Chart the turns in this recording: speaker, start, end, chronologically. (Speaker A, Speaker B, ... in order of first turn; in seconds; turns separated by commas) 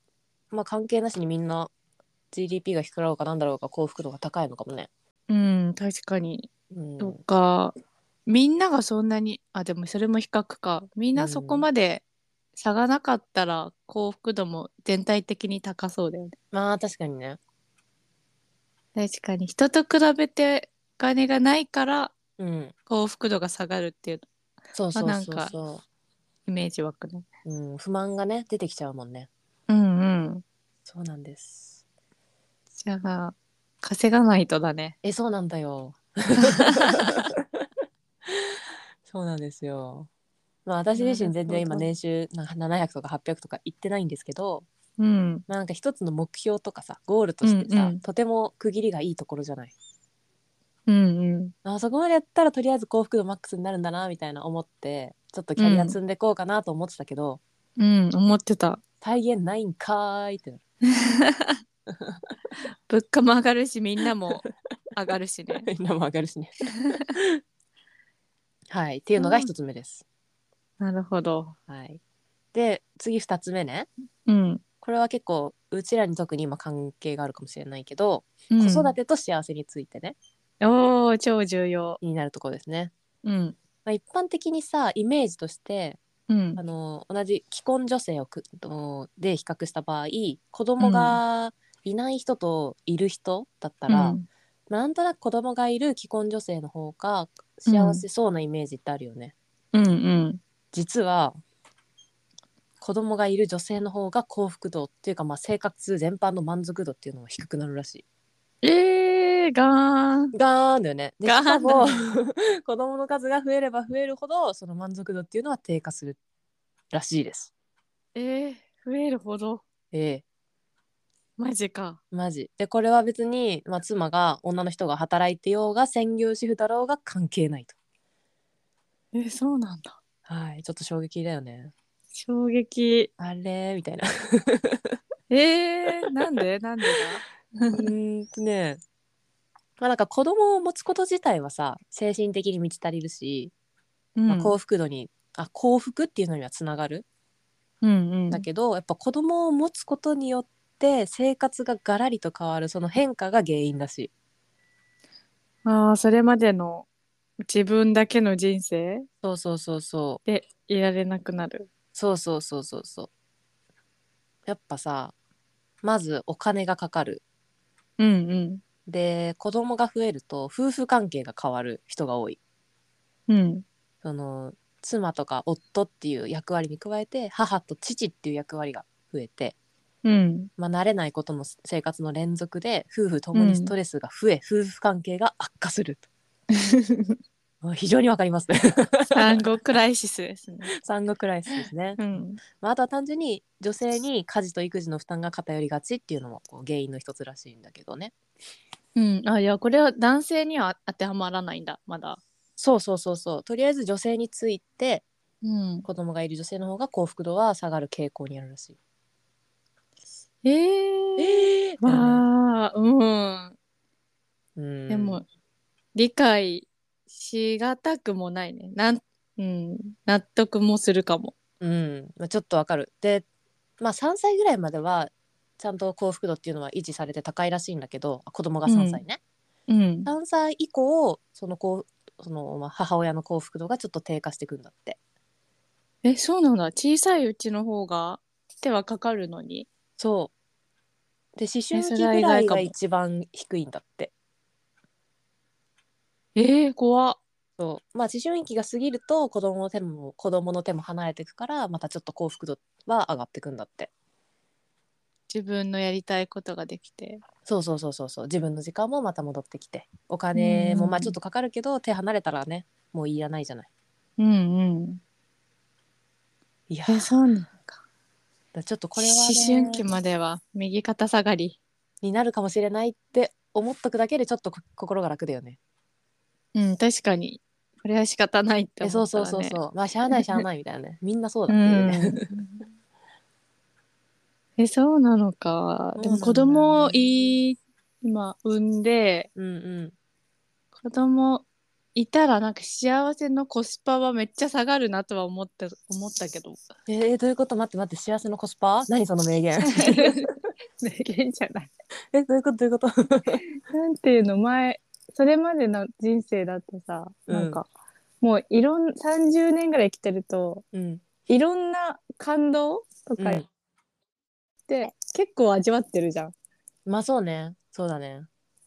Speaker A: 0.5-1.7, Speaker A: 2.3-4.9, Speaker B: 5.3-7.7, Speaker A: 6.7-7.2, Speaker B: 8.3-12.0, Speaker A: 11.2-11.7, Speaker B: 12.6-16.3, Speaker A: 16.5-17.4, Speaker B: 19.0-22.1, Speaker A: 22.4-22.7, Speaker B: 22.9-24.3, Speaker A: 24.8-25.8, Speaker B: 24.9-25.5, Speaker B: 26.5-27.3, Speaker A: 27.5-29.3, Speaker B: 29.7-30.4, Speaker A: 30.9-31.8, Speaker B: 32.8-35.0, Speaker A: 35.0-37.7, Speaker B: 36.4-37.2, Speaker A: 39.1-40.1, Speaker A: 40.7-44.7, Speaker B: 41.0-41.9, Speaker B: 45.0-45.4, Speaker A: 45.5-49.7, Speaker B: 47.4-48.0, Speaker B: 50.9-51.5, Speaker A: 51.6-57.4, Speaker B: 55.6-56.0, Speaker B: 57.8-58.8, Speaker A: 59.0-60.6, Speaker B: 60.9-61.6, Speaker A: 61.9-62.2, Speaker B: 62.9-65.7, Speaker A: 65.7-67.4, Speaker A: 68.7-70.0, Speaker B: 69.2-69.5, Speaker B: 70.8-71.5, Speaker A: 71.7-72.0, Speaker A: 72.5-73.9, Speaker B: 74.3-74.6, Speaker A: 74.8-80.2, Speaker B: 78.5-78.9, Speaker B: 80.6-82.0, Speaker A: 82.0-82.9, Speaker B: 83.2-83.6, Speaker A: 83.8-86.0, Speaker B: 86.3-86.6, Speaker A: 86.6-94.2, Speaker B: 90.8-91.2, Speaker B: 93.9-94.2, Speaker A: 94.7-99.3, Speaker B: 97.7-98.0, Speaker B: 99.7-100.4, Speaker A: 100.7-101.4, Speaker A: 102.8-108.0, Speaker B: 108.6-110.3, Speaker A: 110.3-116.2, Speaker B: 111.2-112.1, Speaker A: 116.9-117.5, Speaker B: 118.2-119.6, Speaker A: 119.9-120.2, Speaker B: 121.4-122.0, Speaker A: 122.1-127.8, Speaker B: 129.1-129.9, Speaker A: 130.3-131.7, Speaker B: 132.1-133.1, Speaker A: 133.2-134.9, Speaker B: 135.3-137.8, Speaker A: 137.7-138.8, Speaker A: 139.8-143.5, Speaker B: 144.2-144.6, Speaker A: 144.3-147.1, Speaker B: 147.8-148.4, Speaker A: 148.3-154.1, Speaker B: 155.7-156.9, Speaker B: 157.4-159.1, Speaker A: 159.2-160.2, Speaker B: 160.3-161.7, Speaker A: 161.9-163.1, Speaker A: 164.5-165.1, Speaker A: 165.8-167.2, Speaker B: 168.0-168.6, Speaker A: 168.9-172.4, Speaker B: 173.3-173.7, Speaker A: 174.0-179.6, Speaker B: 180.0-180.5, Speaker A: 180.6-186.1, Speaker B: 183.3-183.8, Speaker B: 186.5-187.2, Speaker A: 187.6-189.5, Speaker B: 189.2-190.7, Speaker A: 190.8-198.1, Speaker B: 192.0-192.4, Speaker B: 198.9-202.2, Speaker A: 202.6-205.1, Speaker B: 205.4-205.9, Speaker A: 205.8-208.8, Speaker B: 210.4-213.6, Speaker A: 211.2-212.2, Speaker A: 214.6-215.2, Speaker B: 214.9-215.2, Speaker B: 215.9-221.3, Speaker A: 221.6-223.2, Speaker A: 223.8-229.2, Speaker B: 228.7-229.0, Speaker B: 229.7-230.1, Speaker A: 230.1-235.0, Speaker B: 236.0-239.7, Speaker A: 240.0-240.3, Speaker A: 241.4-244.1, Speaker B: 241.7-242.7, Speaker B: 246.3-247.2, Speaker A: 247.6-253.9, Speaker B: 255.3-257.2, Speaker A: 257.5-263.7, Speaker B: 260.4-261.1, Speaker B: 264.2-265.0, Speaker A: 266.7-267.1, Speaker B: 266.9-267.8, Speaker A: 268.5-269.8, Speaker B: 269.0-271.6, Speaker A: 272.0-275.6, Speaker B: 276.6-279.6, Speaker A: 278.8-282.3, Speaker B: 280.1-280.4, Speaker B: 281.5-282.6, Speaker B: 284.6-289.3, Speaker A: 286.0-287.0, Speaker A: 289.4-289.9, Speaker B: 290.8-296.6, Speaker A: 296.9-300.2, Speaker B: 299.6-301.7, Speaker A: 302.1-303.4, Speaker B: 303.7-307.6, Speaker A: 307.3-307.6, Speaker B: 308.2-310.6, Speaker A: 310.7-311.0, Speaker B: 311.3-313.4, Speaker A: 313.2-313.4, Speaker B: 314.7-316.3, Speaker A: 316.9-318.3